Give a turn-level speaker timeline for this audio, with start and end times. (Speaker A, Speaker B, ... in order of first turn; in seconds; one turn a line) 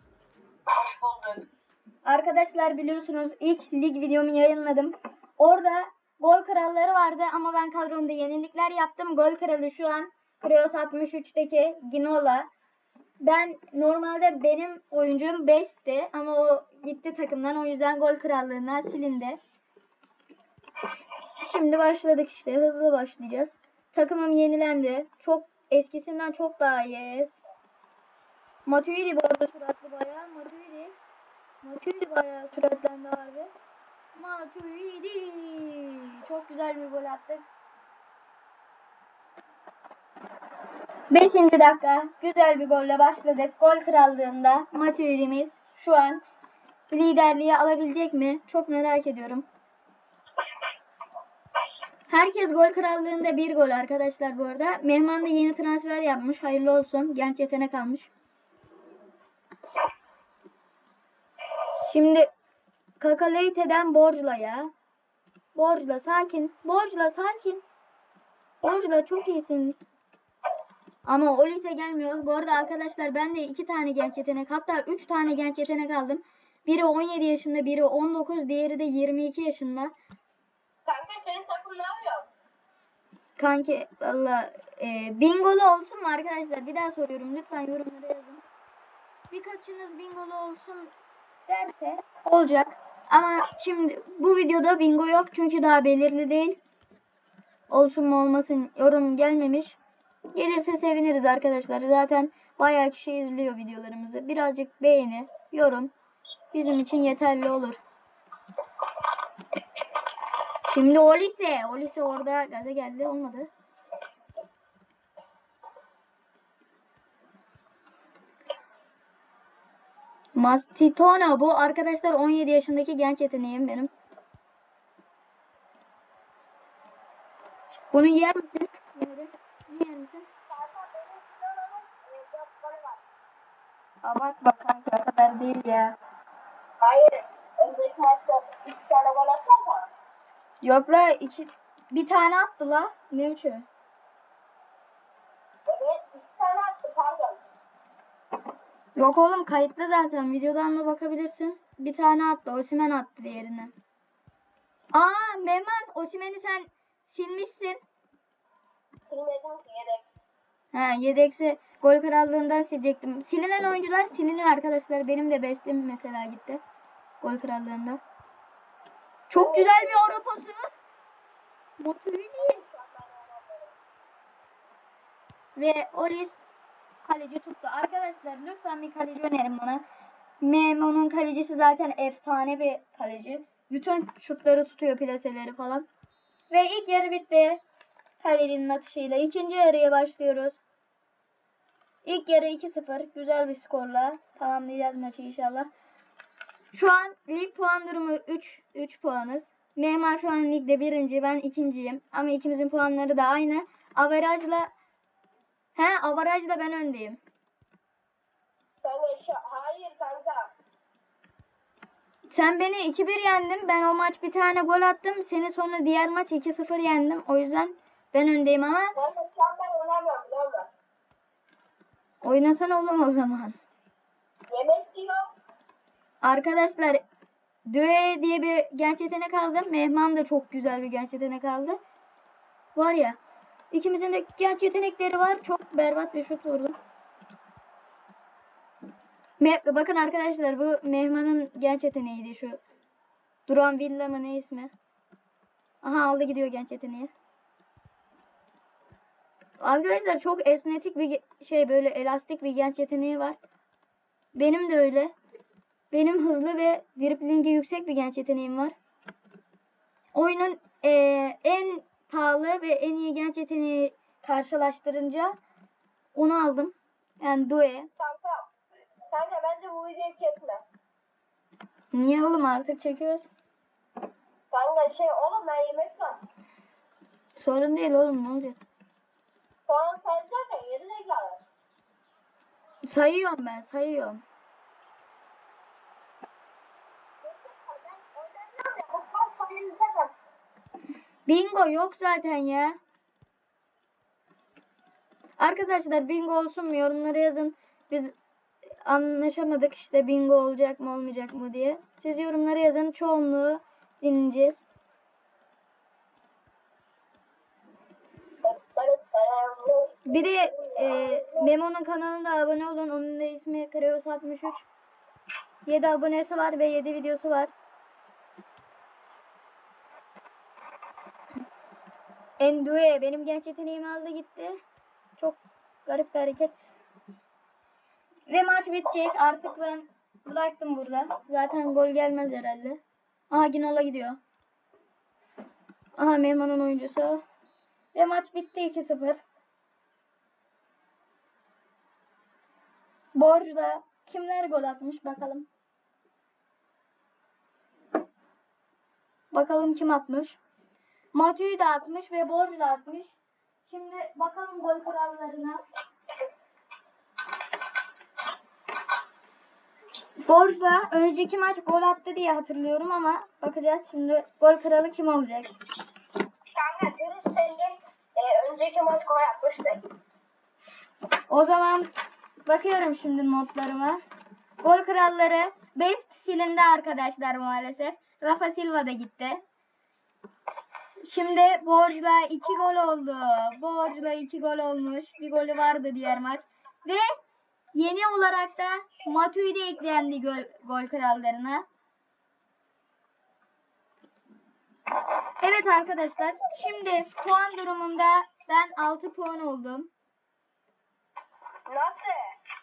Speaker A: 0.8-1.5
Speaker B: 2.0-12.5
Speaker B: 13.2-19.4
Speaker B: 21.4-27.4
Speaker B: 28.7-30.9
Speaker B: 31.6-33.5
Speaker B: 34.1-37.5
Speaker B: 41.1-46.2
Speaker B: 46.9-49.5
Speaker B: 52.1-58.1
Speaker B: 61.8-62.3
Speaker B: 63.0-64.7
Speaker B: 65.5-67.6
Speaker B: 68.6-69.8
Speaker B: 71.0-79.9
Speaker A: 80.9-82.3
Speaker B: 83.4-88.4
Speaker B: 89.3-90.9
Speaker B: 91.5-96.6
Speaker B: 97.7-99.8
Speaker B: 100.3-105.9
Speaker B: 106.5-107.8
Speaker B: 110.7-113.5
Speaker B: 120.3-123.9
Speaker B: 127.9-130.3
Speaker A: 130.5-133.0
Speaker B: 134.0-136.0
Speaker A: 136.8-139.9
Speaker B: 140.6-143.7
Speaker A: 145.7-147.4
Speaker B: 149.0-153.7
Speaker B: 154.9-157.8
Speaker A: 159.0-160.0
Speaker B: 160.7-166.6
Speaker B: 167.2-168.0
Speaker B: 169.3-170.7
Speaker A: 169.3-170.2
Speaker B: 171.8-172.6
Speaker A: 172.3-173.7
Speaker B: 175.6-176.4
Speaker B: 177.0-179.8
Speaker B: 180.4-185.8
Speaker B: 186.5-187.6
Speaker B: 188.2-190.6
Speaker B: 192.0-195.7
Speaker B: 196.7-204.7
Speaker B: 205.8-207.2
Speaker A: 208.8-210.5
Speaker B: 212.3-219.0
Speaker A: 218.9-220.7
Speaker B: 222.2-223.6
Speaker A: 224.5-225.3
Speaker B: 226.2-227.0
Speaker B: 227.7-231.8
Speaker B: 232.8-233.2
Speaker B: 233.7-236.8
Speaker B: 239.4-242.6
Speaker B: 243.5-244.7
Speaker B: 245.8-247.1
Speaker B: 249.6-253.4
Speaker B: 254.3-255.1
Speaker B: 255.9-258.8
Speaker B: 260.1-265.4
Speaker B: 266.1-267.9
Speaker A: 268.0-268.5
Speaker A: 269.1-270.6
Speaker B: 271.9-273.3
Speaker A: 274.5-276.2
Speaker B: 277.4-278.6
Speaker A: 279.7-281.4
Speaker B: 282.8-284.2
Speaker A: 287.2-290.1
Speaker B: 291.3-292.8
Speaker B: 295.4-298.1
Speaker B: 298.9-304.6
Speaker A: 308.4-311.5
Speaker B: 310.1-314.7
Speaker B: 315.7-317.5
Speaker B: 322.4-324.6
Speaker B: 325.2-326.6
Speaker B: 328.3-334.2
Speaker B: 336.0-337.2
Speaker B: 337.9-339.2
Speaker B: 343.1-345.5
Speaker B: 349.3-350.4
Speaker B: 351.1-353.2
Speaker B: 353.7-355.6
Speaker B: 360.3-365.5
Speaker A: 366.6-369.9
Speaker B: 371.3-371.9
Speaker B: 372.5-374.0
Speaker B: 374.6-379.4
Speaker B: 381.0-387.1
Speaker B: 387.7-391.7
Speaker B: 395.4-399.9
Speaker A: 401.7-402.3